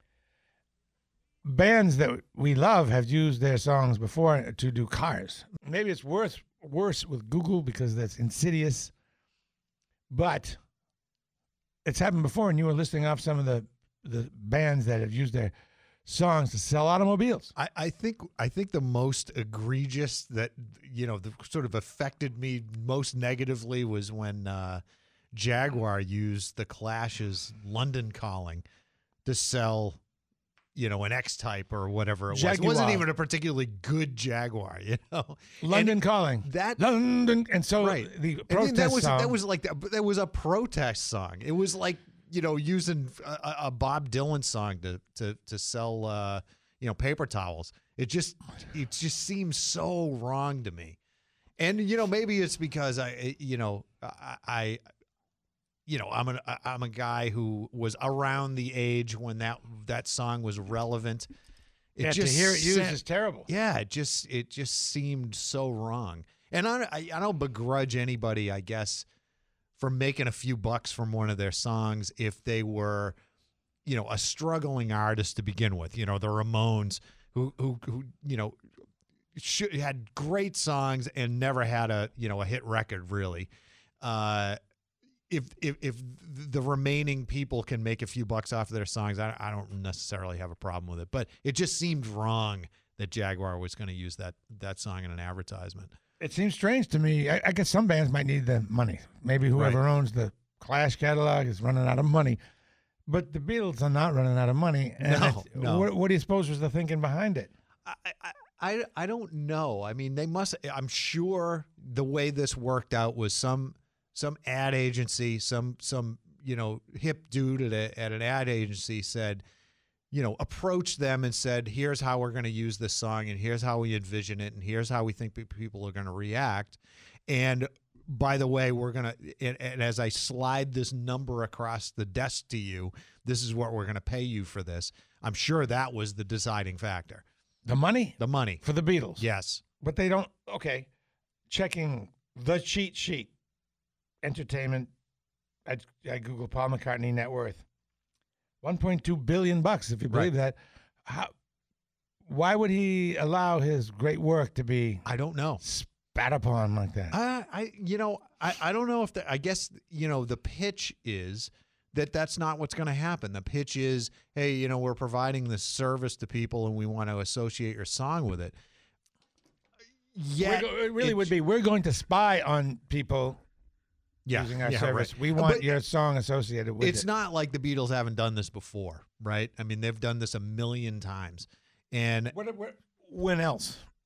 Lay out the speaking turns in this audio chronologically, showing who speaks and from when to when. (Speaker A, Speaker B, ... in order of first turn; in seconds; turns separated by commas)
Speaker A: 1.4-8.9, Speaker A: 10.1-10.6, Speaker A: 11.8-15.5, Speaker A: 16.1-17.5, Speaker B: 17.6-24.8, Speaker B: 25.3-28.6, Speaker B: 29.2-30.0, Speaker B: 30.7-36.8, Speaker A: 32.3-33.0, Speaker A: 35.6-39.4, Speaker B: 37.8-51.0, Speaker B: 51.6-54.8, Speaker B: 55.9-61.3, Speaker B: 61.9-69.0, Speaker A: 62.0-63.5, Speaker B: 69.8-73.2, Speaker B: 73.8-78.6, Speaker B: 79.3-83.5, Speaker B: 84.0-84.6, Speaker B: 85.3-95.9, Speaker A: 96.2-102.4, Speaker A: 103.1-107.5, Speaker B: 105.0-105.9, Speaker B: 107.8-119.4, Speaker B: 120.1-137.2, Speaker A: 137.7-139.2, Speaker B: 138.2-138.6, Speaker B: 139.2-139.6, Speaker A: 139.8-140.9, Speaker A: 141.5-143.3, Speaker A: 144.2-144.9, Speaker A: 145.7-147.6, Speaker A: 148.6-151.3, Speaker A: 152.3-155.0, Speaker B: 155.1-155.6, Speaker A: 155.6-157.1, Speaker B: 157.1-168.6, Speaker B: 170.1-171.3, Speaker A: 170.4-173.4, Speaker B: 174.2-175.7, Speaker A: 174.3-177.1, Speaker B: 176.8-182.3, Speaker A: 182.3-183.8